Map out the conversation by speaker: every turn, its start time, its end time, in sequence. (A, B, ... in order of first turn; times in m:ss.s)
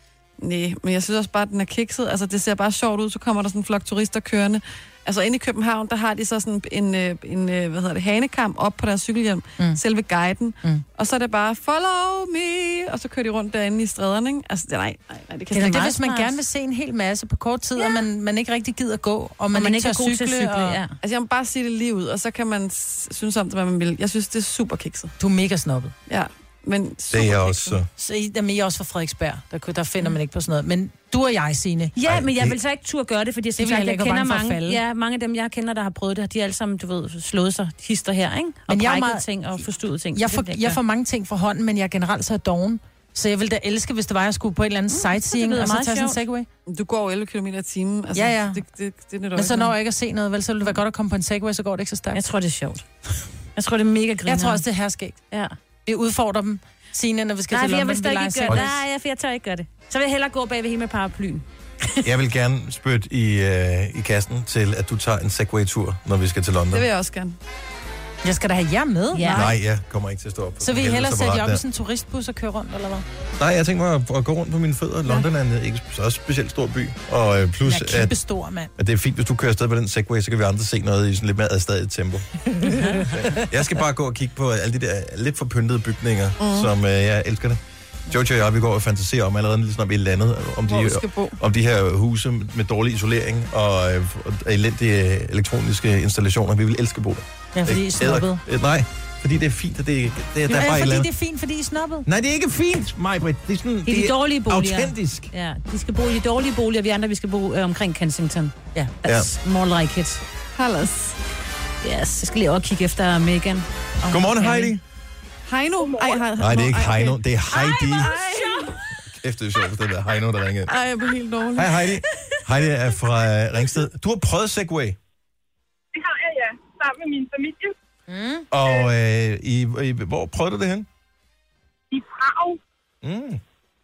0:00.4-0:15.8 A
0:15.5-0:20.8 B
0:15.5-0:16.4 C
0:17.8-0:18.0 C
0:19.5-0:21.0 C
0:21.0-0:25.1 A
0:25.2-0:25.9 B
0:26.1-0:27.8 A
0:27.1-0:27.9 D
0:28.0-0:31.9 B
0:32.0-0:40.8 C
0:32.1-0:32.6 D
0:33.6-0:34.8 B
0:38.7-0:39.2 B
0:40.2-0:46.5 B
0:44.9-0:46.2 C
0:46.7-0:49.7 A
0:48.2-0:48.6 B
0:49.4-0:52.2 B
0:52.1-0:52.9 C
0:53.6-0:54.6 C
0:54.3-0:55.2 B
0:55.9-0:58.7 B
0:57.5-1:01.5 C
0:58.5-0:58.8 D
1:02.0-1:06.9 D
1:06.7-1:07.4 A
1:08.2-1:09.4 B
1:09.1-1:09.5 C
1:09.3-1:11.6 D
1:10.6-1:13.0 B
1:13.4-1:18.2 D
1:17.6-1:18.7 B
1:18.8-1:22.3 D
1:22.6-1:23.1 B
1:23.0-1:41.1 D
1:26.4-1:26.7 A
1:30.7-1:31.4 A
1:37.6-1:38.4 B
1:40.5-1:42.1 B
1:42.1-1:45.3 D
1:43.9-1:50.2 C
1:49.0-1:49.3 D
1:50.6-1:51.2 A
1:51.8-1:54.7 C
1:54.1-1:54.8 D
1:55.5-1:57.2 A
1:55.8-1:56.2 E
1:56.4-1:58.2 D
1:58.0-1:58.8 A
1:58.4-1:58.7 C
1:59.1-2:00.8 D
2:00.7-2:01.8 A
2:01.6-2:05.0 D
2:05.9-2:07.8 E
2:08.1-2:08.5 B
2:08.5-2:10.9 D
2:08.6-2:08.9 E
2:11.9-2:12.6 E
2:13.0-2:13.4 D